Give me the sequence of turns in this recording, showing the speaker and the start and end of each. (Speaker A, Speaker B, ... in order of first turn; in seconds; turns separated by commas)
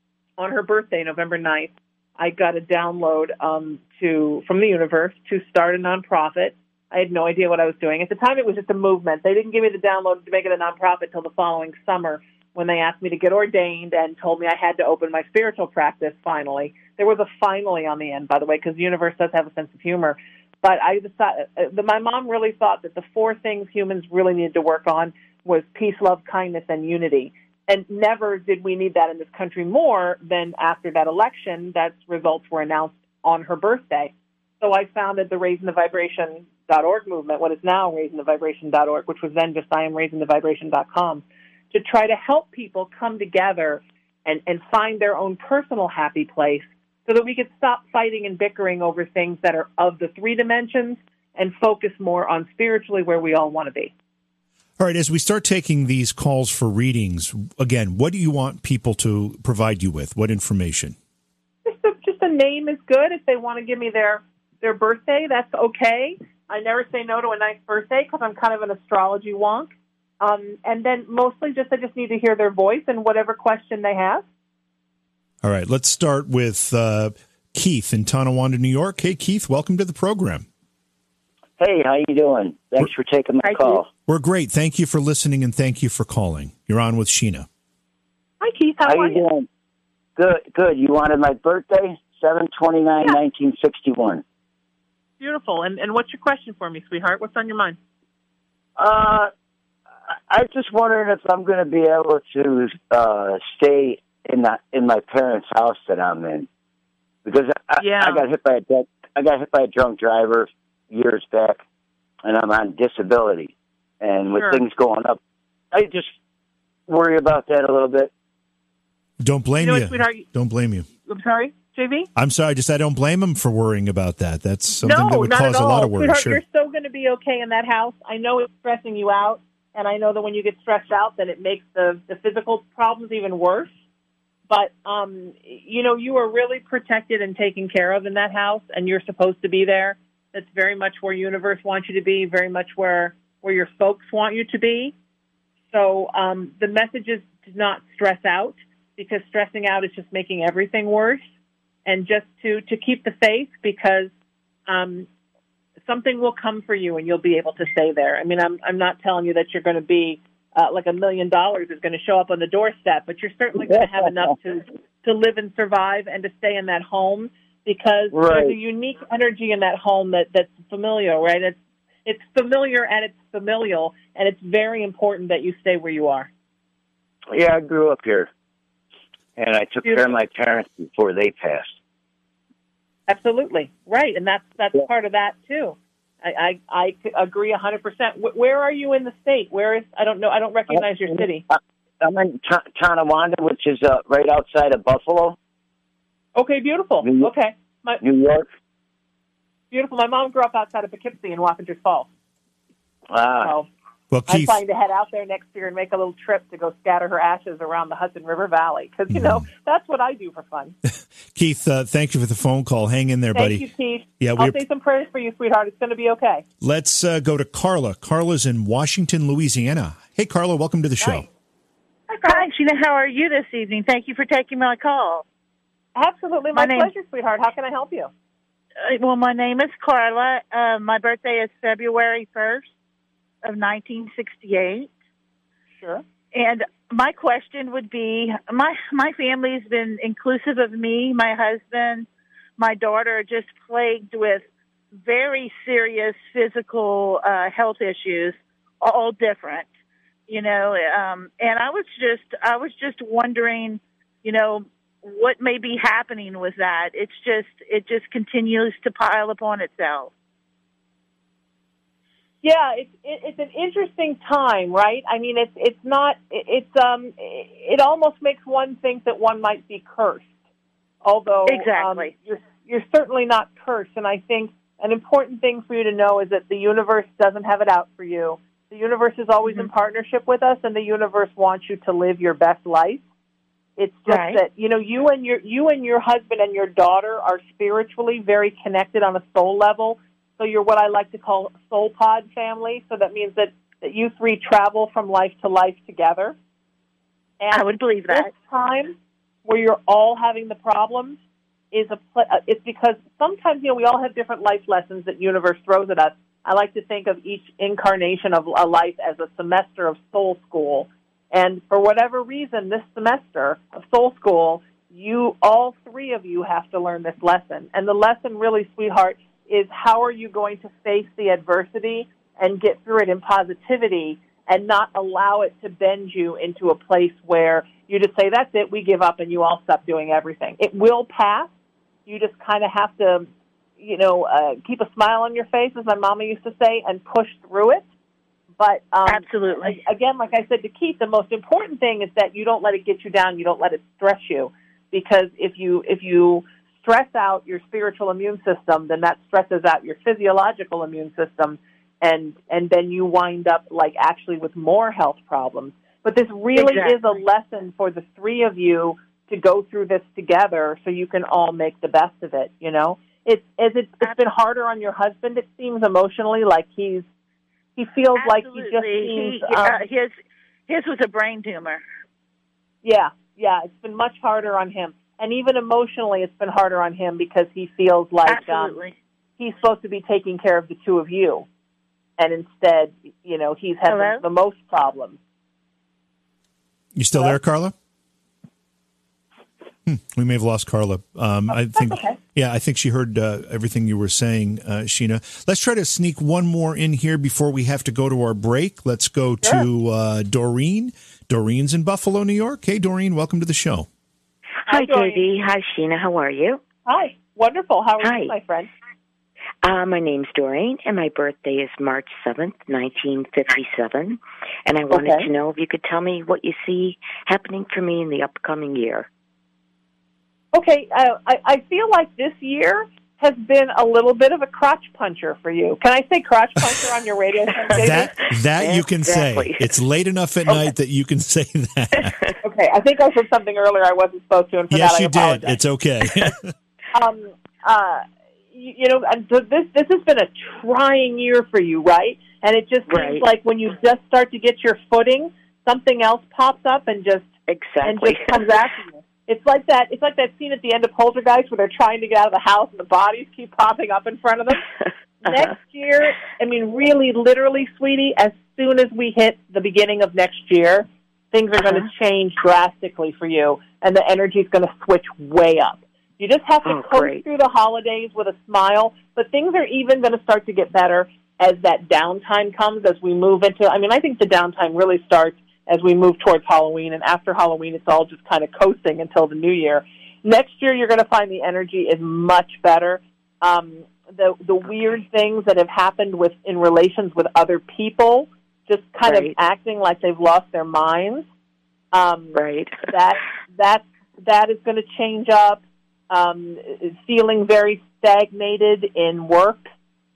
Speaker A: 0.4-53.9, Speaker B: 54.8-61.0, Speaker A: 61.6-74.2, Speaker B: 75.4-80.5, Speaker C: 81.6-83.9, Speaker A: 83.4-83.8, Speaker B: 84.1-87.5, Speaker A: 88.4-89.2, Speaker C: 88.8-89.5, Speaker C: 90.2-94.2, Speaker A: 95.2-97.8, Speaker C: 98.8-99.3, Speaker C: 100.1-106.5, Speaker C: 107.2-111.6, Speaker A: 107.8-108.2, Speaker C: 112.2-115.2, Speaker A: 114.3-114.6, Speaker C: 115.7-116.1, Speaker C: 116.9-118.1, Speaker B: 119.2-120.9, Speaker A: 119.6-120.2, Speaker A: 121.1-122.1, Speaker B: 122.2-126.4, Speaker A: 124.8-133.7, Speaker A: 134.5-144.9, Speaker A: 145.7-151.2, Speaker A: 151.8-154.1, Speaker A: 154.7-155.1, Speaker A: 155.8-176.3, Speaker C: 163.7-164.3, Speaker C: 168.1-168.6, Speaker C: 177.3-178.3, Speaker C: 179.4-181.8, Speaker A: 179.8-180.1, Speaker A: 183.1-191.4, Speaker C: 190.7-195.3, Speaker A: 196.3-198.0, Speaker C: 197.0-197.3, Speaker C: 198.0-198.5, Speaker A: 199.7-202.1, Speaker C: 203.1-203.5, Speaker A: 203.4-203.7, Speaker B: 204.1-204.6, Speaker A: 204.3-210.7, Speaker B: 209.1-209.4, Speaker B: 211.3-213.7, Speaker A: 213.3-216.4, Speaker B: 214.2-214.6, Speaker B: 216.6-221.2, Speaker A: 222.1-222.5, Speaker D: 222.2-225.2, Speaker A: 225.9-228.1, Speaker D: 226.5-226.9, Speaker D: 228.8-232.7, Speaker D: 233.4-234.9, Speaker D: 236.3-242.1, Speaker D: 242.6-244.4, Speaker D: 245.0-249.7, Speaker D: 250.3-260.1, Speaker A: 262.4-270.3, Speaker A: 271.0-283.0, Speaker D: 271.4-272.1, Speaker A: 283.8-296.4, Speaker A: 297.4-301.2, Speaker D: 297.5-298.3, Speaker A: 301.7-331.5, Speaker A: 332.1-337.8, Speaker A: 338.6-367.0, Speaker D: 339.1-339.8, Speaker D: 356.5-357.0, Speaker A: 367.8-369.8, Speaker D: 368.1-370.1, Speaker D: 370.7-371.8, Speaker A: 372.8-378.7, Speaker D: 378.2-378.9, Speaker A: 379.4-381.4, Speaker A: 382.2-385.2, Speaker D: 383.9-384.2, Speaker B: 386.9-387.7, Speaker B: 389.9-403.9, Speaker A: 391.7-392.2, Speaker A: 404.6-405.2, Speaker E: 404.7-406.6, Speaker A: 406.9-408.7, Speaker E: 408.0-408.3, Speaker E: 409.6-419.1, Speaker A: 414.9-415.3, Speaker A: 420.5-428.1, Speaker E: 427.6-429.7, Speaker B: 427.8-432.1, Speaker E: 432.0-432.4, Speaker A: 432.4-435.6, Speaker B: 434.7-436.5, Speaker A: 436.9-447.3, Speaker E: 442.9-443.2, Speaker E: 447.5-448.5, Speaker A: 447.8-454.7, Speaker A: 455.2-491.3, Speaker E: 455.2-455.5, Speaker E: 461.6-461.9, Speaker E: 466.6-467.2, Speaker E: 489.0-489.4, Speaker A: 491.9-499.7, Speaker E: 492.3-492.8